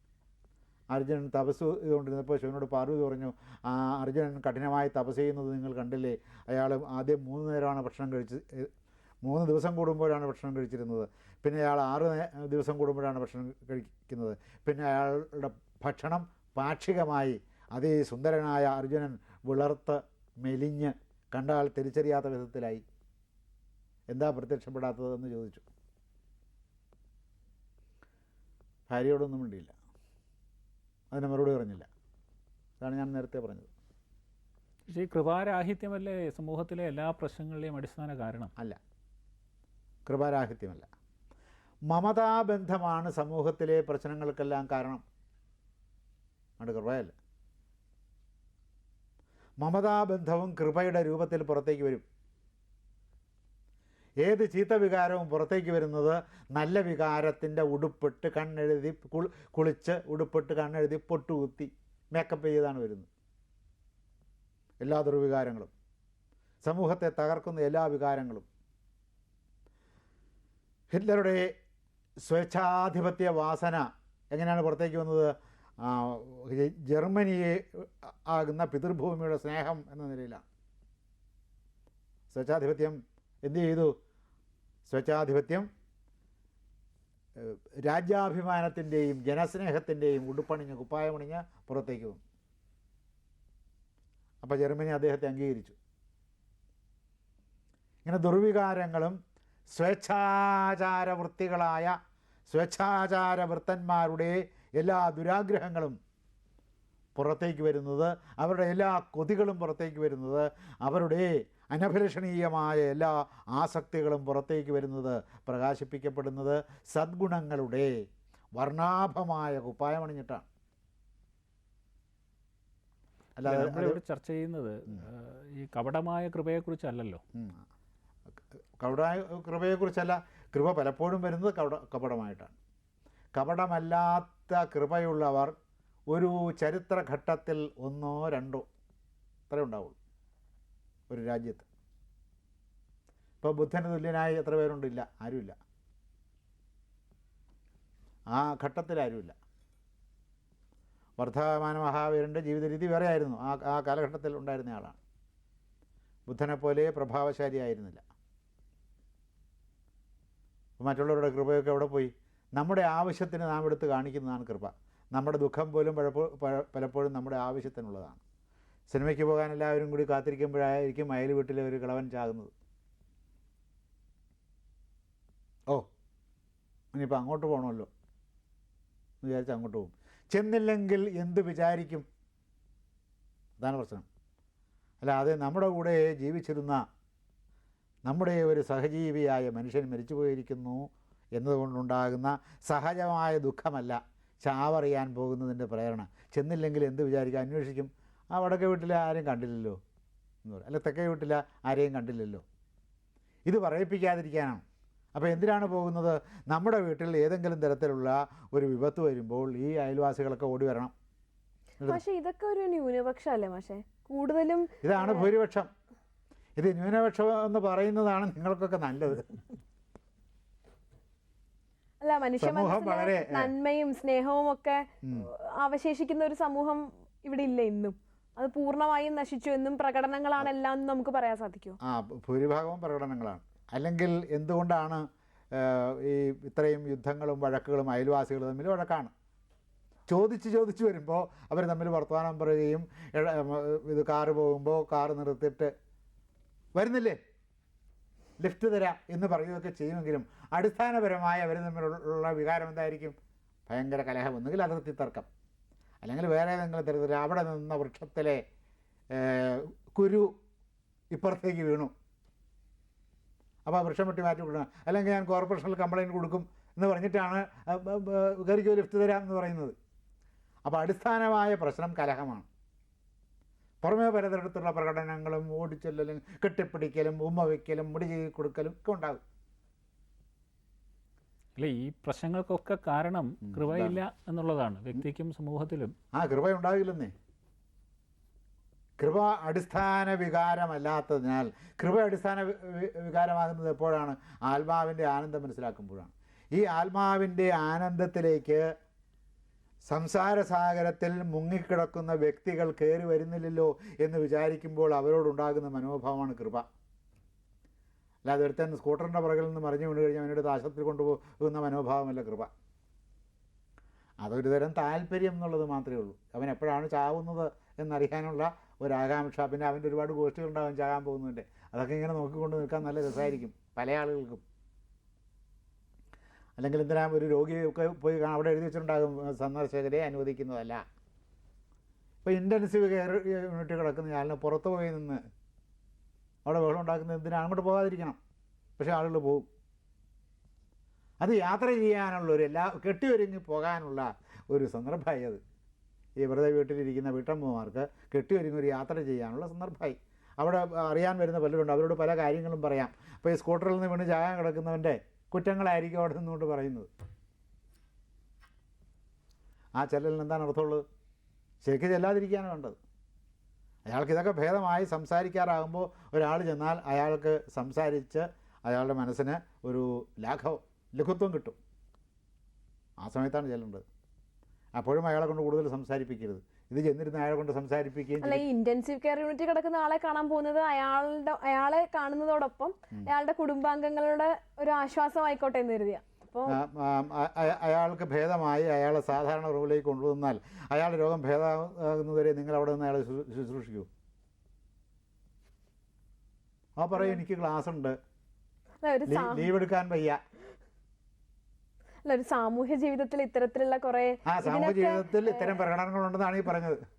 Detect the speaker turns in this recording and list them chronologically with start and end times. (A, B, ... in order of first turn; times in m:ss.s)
0:00.9-0:08.7 A
0:09.2-0:22.8 A
0:24.1-0:25.6 A
0:28.9-0:29.7 A
0:31.1-0:31.9 A
0:32.8-0:33.7 A
0:34.9-0:38.5 B
0:40.1-0:40.9 A
0:41.9-0:45.0 A
0:46.6-0:47.1 A
0:49.6-0:52.0 A
0:54.2-1:03.1 A
1:04.8-1:05.7 A
1:06.6-1:08.4 A
1:10.9-1:11.5 A
1:12.2-1:20.4 A
1:22.3-1:23.9 A
1:24.9-1:25.7 A
1:27.4-1:32.2 A
1:34.4-1:35.8 A
1:38.0-1:39.2 A
1:39.7-1:42.0 A
1:42.5-1:46.0 A
1:47.2-1:57.9 A
1:58.6-2:00.4 A
2:03.4-2:04.0 A
2:03.4-2:07.2 B
2:07.4-2:07.6 A
2:08.8-2:12.5 A
2:13.4-2:15.6 A
2:16.1-2:18.7 A
2:19.5-2:20.0 A
2:21.1-2:21.7 A
2:23.4-2:25.6 A
2:28.3-2:29.4 A
2:31.2-2:35.0 A
2:36.3-2:38.0 A
2:40.8-2:48.2 A
2:48.9-2:52.5 A
2:56.9-2:57.9 A
2:59.2-3:02.1 A
3:03.6-3:04.1 A
3:05.0-3:06.8 A
3:08.1-3:19.8 A
3:20.4-3:22.4 A
3:23.5-3:24.6 A
3:25.2-3:30.9 A
3:31.9-3:35.3 C
3:34.8-3:35.7 A
3:36.6-3:39.4 A
3:42.0-3:51.8 C
3:42.4-3:43.5 A
3:45.0-3:45.3 A
3:51.8-3:59.1 A
4:00.1-4:05.7 A
4:06.8-4:07.2 A
4:08.4-4:13.2 A
4:13.7-4:15.3 A
4:16.0-4:18.4 A
4:19.1-4:20.4 A
4:21.1-4:21.9 A
4:23.6-4:29.8 A
4:30.7-4:32.5 A
4:33.8-4:39.2 A
4:41.6-4:46.0 B
4:43.4-4:44.0 A
4:46.1-4:47.1 A
4:49.0-4:58.7 A
4:59.9-5:06.6 A
5:08.2-5:12.5 A
5:14.2-5:24.4 A
5:26.6-5:30.8 A
5:32.2-5:35.2 A
5:36.4-5:38.2 A
5:38.8-5:39.5 A
5:41.2-5:45.4 A
5:46.2-5:56.9 A
5:59.8-6:00.8 A
6:01.6-6:02.8 A
6:03.9-6:11.6 A
6:13.0-6:13.8 A
6:14.8-6:18.4 A
6:18.2-6:26.6 C
6:26.5-6:33.9 A
6:36.8-6:38.0 A
6:38.8-6:39.5 C
6:39.1-6:40.2 A
6:42.0-6:45.6 C
6:44.3-6:46.8 A